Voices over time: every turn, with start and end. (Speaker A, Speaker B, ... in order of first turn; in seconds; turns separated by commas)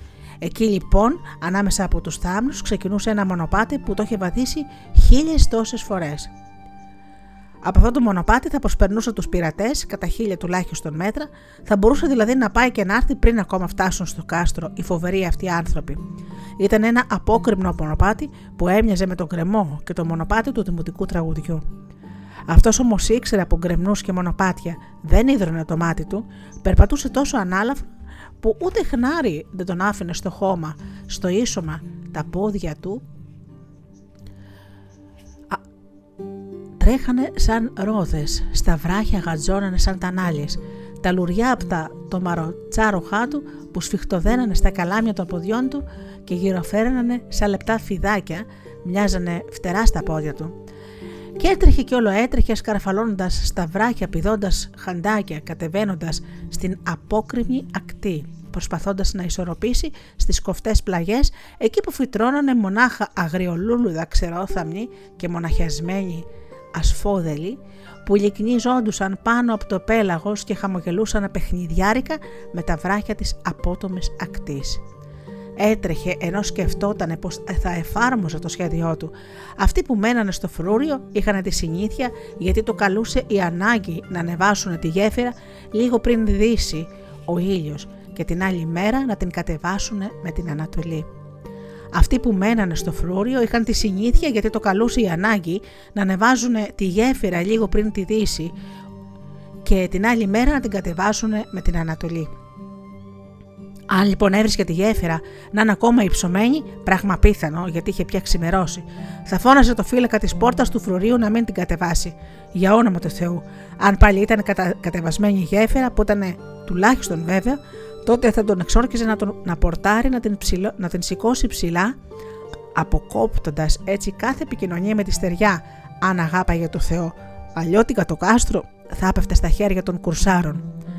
Speaker A: 0.4-6.3, Speaker A: 7.6-16.0, Speaker A: 16.6-21.6, Speaker A: 22.5-27.9, Speaker A: 28.4-33.0, Speaker A: 36.8-50.5, Speaker A: 51.4-74.8, Speaker A: 75.6-91.1, Speaker A: 91.9-98.5, Speaker A: 99.6-102.3, Speaker A: 103.9-122.0, Speaker A: 122.8-130.6